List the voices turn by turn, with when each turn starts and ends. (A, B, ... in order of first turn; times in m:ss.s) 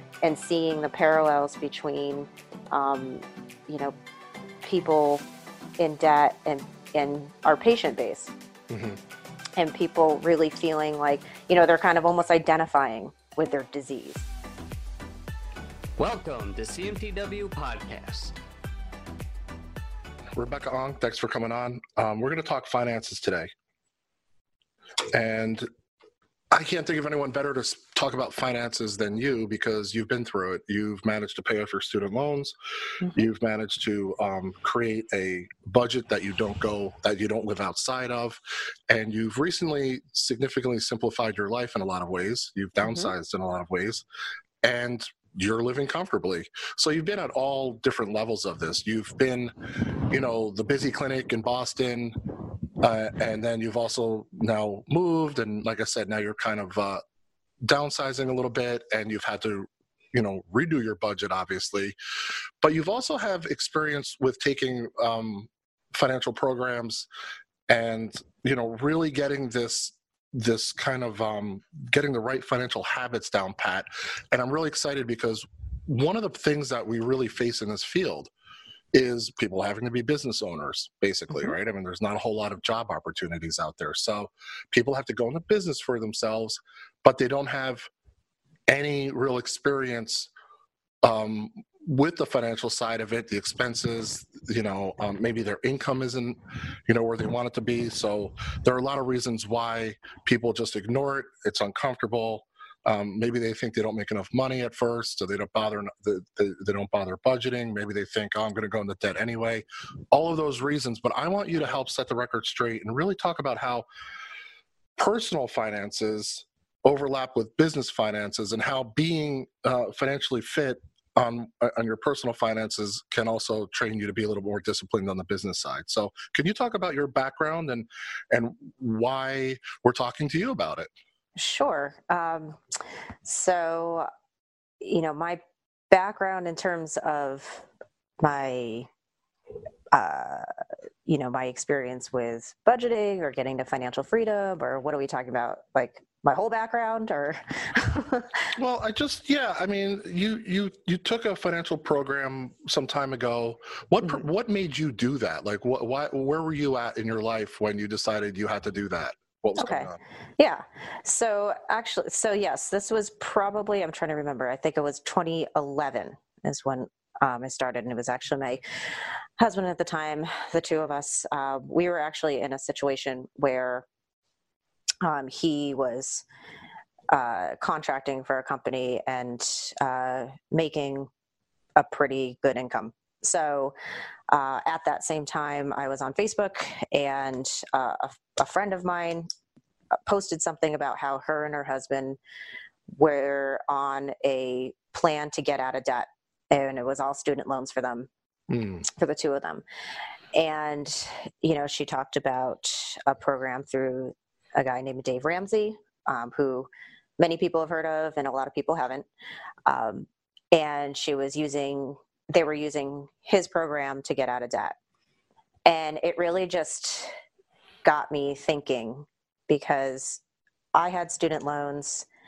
0:00.2-0:04.0 A
0:04.6-0:05.2 A
0:05.8-0:08.3 A
0:08.7-0:09.0 B
0:09.6-0:14.2 A
0:16.0-0:18.4 C
0:20.4-0:23.5 B
0:25.1-0:25.7 B
0:26.5-0:32.5 B
0:33.0-0:44.0 B
0:42.8-0:43.1 A
0:44.6-0:52.2 B
0:52.8-0:57.0 B
0:57.6-1:01.9 B
1:02.6-1:07.1 B
1:07.7-1:18.3 B
1:18.9-1:27.9 B
1:28.7-1:30.3 B
1:31.0-1:53.8 B
1:55.0-2:10.9 B
2:11.4-2:12.7 A
2:13.2-2:14.1 A
2:14.8-2:17.6 A
2:18.2-2:18.9 A
2:19.9-2:20.5 A
2:21.0-2:28.5 A
2:28.6-2:40.0 B
2:39.6-2:48.6 A
2:49.4-2:53.8 A
2:55.0-2:56.2 A
2:57.1-3:01.1 A
3:01.8-3:03.7 A
3:04.3-3:09.3 A
3:10.0-3:12.2 A
3:13.0-3:18.1 A
3:18.5-3:18.9 B
3:18.9-3:19.6 A
3:20.3-3:29.1 A
3:29.6-3:34.8 A
3:35.6-3:37.1 A
3:37.8-3:40.2 A
3:40.7-3:42.0 A